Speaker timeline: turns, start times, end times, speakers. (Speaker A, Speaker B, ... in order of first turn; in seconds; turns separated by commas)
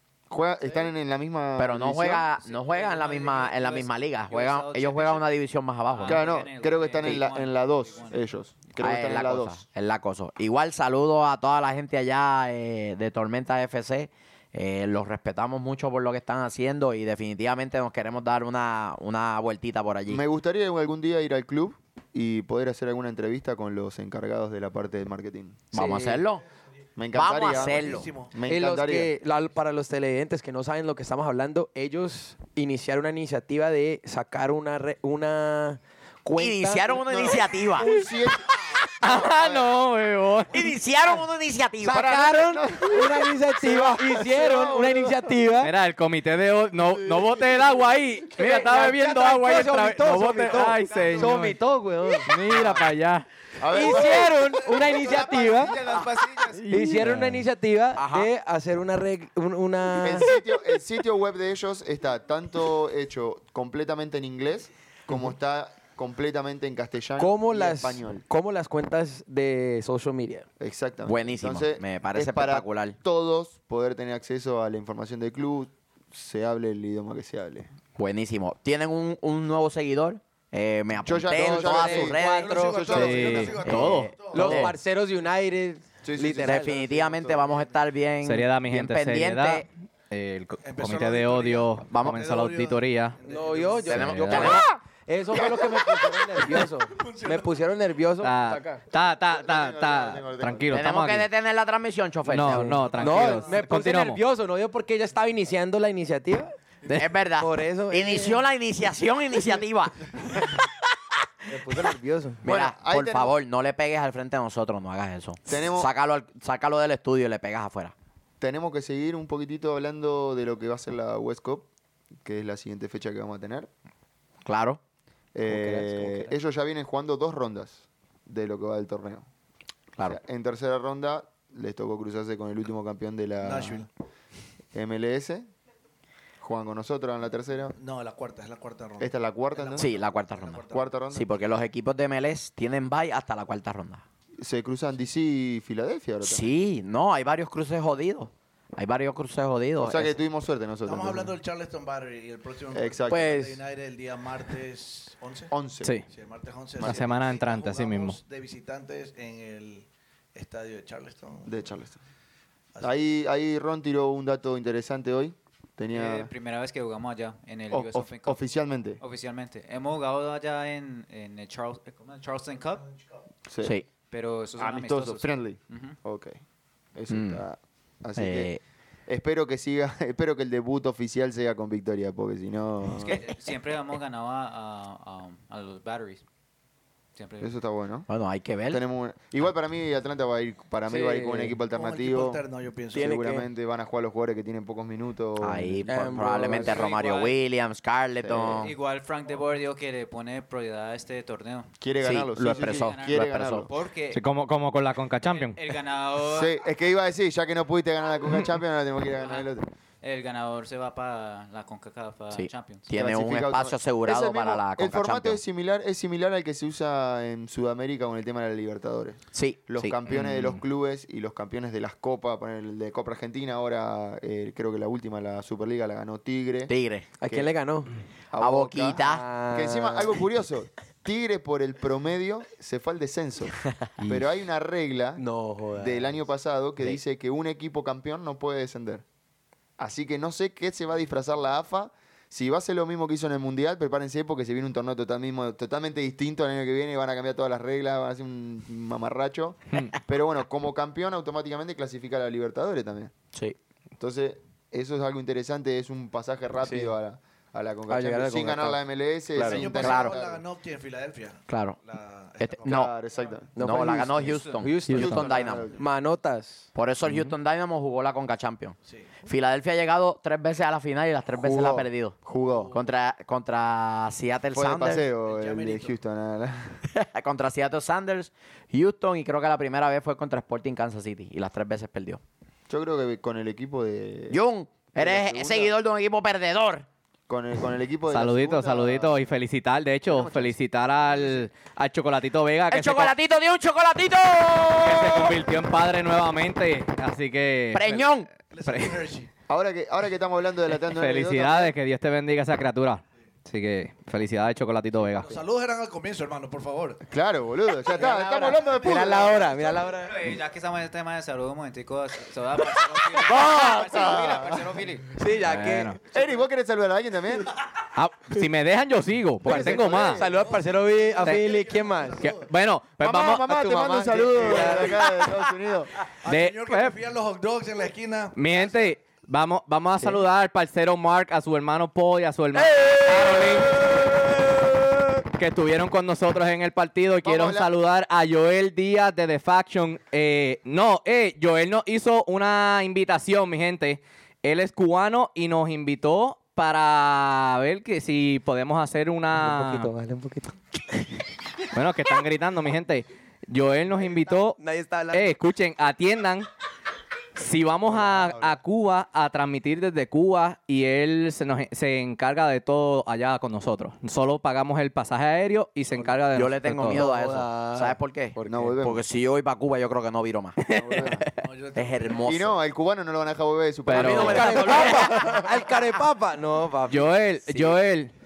Speaker A: 0.3-2.3, Speaker B: 1.6-6.2, Speaker C: 2.4-5.3, Speaker C: 5.9-8.2, Speaker A: 6.0-9.6, Speaker B: 8.8-20.2, Speaker A: 20.1-25.7, Speaker B: 25.7-26.4, Speaker D: 25.7-26.2, Speaker A: 27.0-29.1, Speaker B: 27.1-28.1, Speaker E: 27.4-28.4, Speaker D: 28.4-37.2, Speaker B: 36.4-37.9, Speaker A: 36.9-39.7, Speaker F: 38.9-40.7, Speaker B: 40.5-42.0, Speaker D: 41.8-45.7, Speaker A: 41.9-45.4, Speaker F: 45.6-51.6, Speaker D: 48.3-52.7, Speaker F: 52.2-53.3, Speaker A: 53.6-54.5, Speaker D: 53.6-55.8, Speaker E: 54.7-55.6, Speaker C: 55.0-56.6, Speaker F: 56.5-57.5, Speaker D: 56.7-60.4, Speaker B: 57.9-58.3, Speaker A: 60.0-68.2, Speaker D: 67.2-70.5, Speaker A: 70.6-77.7, Speaker B: 71.0-73.0, Speaker B: 78.0-84.7, Speaker A: 81.0-83.8, Speaker D: 81.3-82.8, Speaker E: 81.9-84.6, Speaker F: 82.9-84.7, Speaker D: 84.3-86.8, Speaker A: 86.0-87.5, Speaker B: 86.3-89.7, Speaker E: 86.9-87.8, Speaker F: 88.2-93.2, Speaker E: 90.6-94.2, Speaker B: 91.9-92.2, Speaker D: 93.2-98.8, Speaker F: 93.9-94.7, Speaker B: 93.9-94.7, Speaker E: 96.4-97.7, Speaker F: 98.2-101.3, Speaker A: 99.0-100.8, Speaker B: 100.7-102.8, Speaker F: 102.3-104.2, Speaker D: 102.4-106.5, Speaker E: 102.8-103.7, Speaker B: 106.9-110.7, Speaker D: 107.4-108.4, Speaker D: 111.5-112.4, Speaker B: 112.4-117.9, Speaker A: 112.4-113.3, Speaker A: 115.5-115.9, Speaker A: 118.4-121.7, Speaker A: 122.2-123.7, Speaker B: 124.4-124.8, Speaker A: 125.3-129.2, Speaker D: 125.4-126.3, Speaker A: 130.0-133.8, Speaker E: 133.4-133.9, Speaker A: 134.7-135.5, Speaker A: 136.4-137.8, Speaker E: 137.7-141.0, Speaker A: 139.0-139.9, Speaker B: 139.8-144.0, Speaker A: 140.7-141.3, Speaker A: 144.4-146.5, Speaker B: 146.2-150.1, Speaker A: 149.8-151.4, Speaker E: 150.8-155.5, Speaker A: 152.7-153.3, Speaker D: 153.1-153.6, Speaker A: 155.5-155.9, Speaker E: 156.1-161.5, Speaker F: 156.8-158.2, Speaker A: 161.4-162.0, Speaker A: 162.8-166.3, Speaker C: 165.9-168.4, Speaker A: 167.7-169.0, Speaker C: 169.0-172.9, Speaker E: 172.7-173.0, Speaker A: 173.5-173.7, Speaker C: 174.1-175.9, Speaker A: 174.6-176.4, Speaker A: 176.9-178.5, Speaker B: 177.1-177.4, Speaker B: 178.2-178.6, Speaker A: 179.1-183.2, Speaker C: 182.9-186.2, Speaker C: 187.2-187.5, Speaker A: 187.4-188.1, Speaker B: 188.1-188.8, Speaker A: 188.7-192.4, Speaker D: 190.9-191.6, Speaker E: 191.7-193.2, Speaker D: 192.9-193.5, Speaker A: 192.9-195.8, Speaker B: 195.4-198.7, Speaker D: 195.9-196.9, Speaker A: 196.4-196.8, Speaker C: 196.7-197.4, Speaker A: 198.2-198.7, Speaker C: 198.6-201.7, Speaker A: 201.8-203.7, Speaker B: 202.0-203.7, Speaker C: 202.4-204.2, Speaker F: 204.1-205.6, Speaker C: 205.2-206.5, Speaker A: 206.3-209.7, Speaker C: 209.2-209.5, Speaker C: 210.0-212.9, Speaker B: 212.3-215.4, Speaker A: 212.9-226.7, Speaker B: 219.3-219.6, Speaker F: 219.8-220.6, Speaker B: 226.7-227.1, Speaker D: 227.2-227.9, Speaker A: 227.2-227.5, Speaker A: 228.3-239.0, Speaker B: 228.4-229.2, Speaker D: 228.9-230.2, Speaker D: 235.2-236.2, Speaker A: 239.8-253.1, Speaker A: 254.0-260.4, Speaker D: 256.6-256.9, Speaker D: 257.9-258.8, Speaker E: 259.4-262.9, Speaker D: 259.4-259.7, Speaker B: 259.8-260.1, Speaker B: 261.5-261.8, Speaker B: 262.4-262.9, Speaker A: 262.6-263.8, Speaker D: 263.5-266.7, Speaker B: 263.6-265.6, Speaker C: 264.2-264.6, Speaker F: 264.9-265.2, Speaker A: 264.9-265.8, Speaker B: 266.7-272.1, Speaker A: 271.3-272.8, Speaker E: 272.3-272.9, Speaker B: 272.7-275.1, Speaker A: 274.5-276.8, Speaker E: 275.2-275.9, Speaker B: 276.9-282.2, Speaker A: 282.7-284.4, Speaker B: 284.3-286.9, Speaker A: 284.9-285.7, Speaker A: 287.3-289.2, Speaker F: 288.1-293.1, Speaker A: 290.1-290.6, Speaker B: 292.7-295.4, Speaker F: 294.8-299.0, Speaker B: 297.7-298.3, Speaker E: 298.5-299.3, Speaker A: 299.5-301.7, Speaker F: 300.8-305.4, Speaker E: 304.9-307.0, Speaker A: 307.1-309.5, Speaker C: 307.9-308.6, Speaker E: 308.1-309.4, Speaker D: 308.7-310.4, Speaker C: 309.4-315.1, Speaker A: 313.1-314.8, Speaker D: 315.2-316.0, Speaker F: 315.4-316.0, Speaker A: 316.1-317.5, Speaker F: 317.9-320.2, Speaker D: 319.4-322.3, Speaker A: 319.4-320.3, Speaker E: 319.6-322.5, Speaker F: 322.2-324.2, Speaker A: 323.0-325.9, Speaker D: 324.1-325.3, Speaker E: 324.5-324.8, Speaker E: 326.2-328.9, Speaker F: 326.2-327.0, Speaker F: 328.3-334.1, Speaker F: 335.3-349.9, Speaker A: 337.2-337.7, Speaker D: 349.3-351.2, Speaker F: 351.7-354.6, Speaker D: 354.3-355.4, Speaker F: 355.1-356.5, Speaker F: 357.4-367.0, Speaker B: 366.3-371.1, Speaker D: 366.9-368.7, Speaker A: 368.4-369.0, Speaker F: 370.6-371.3, Speaker A: 370.7-371.3, Speaker E: 371.4-372.5, Speaker B: 371.7-372.5, Speaker A: 372.2-375.4, Speaker F: 373.9-374.9, Speaker D: 373.9-377.8, Speaker B: 373.9-375.3, Speaker F: 376.9-378.1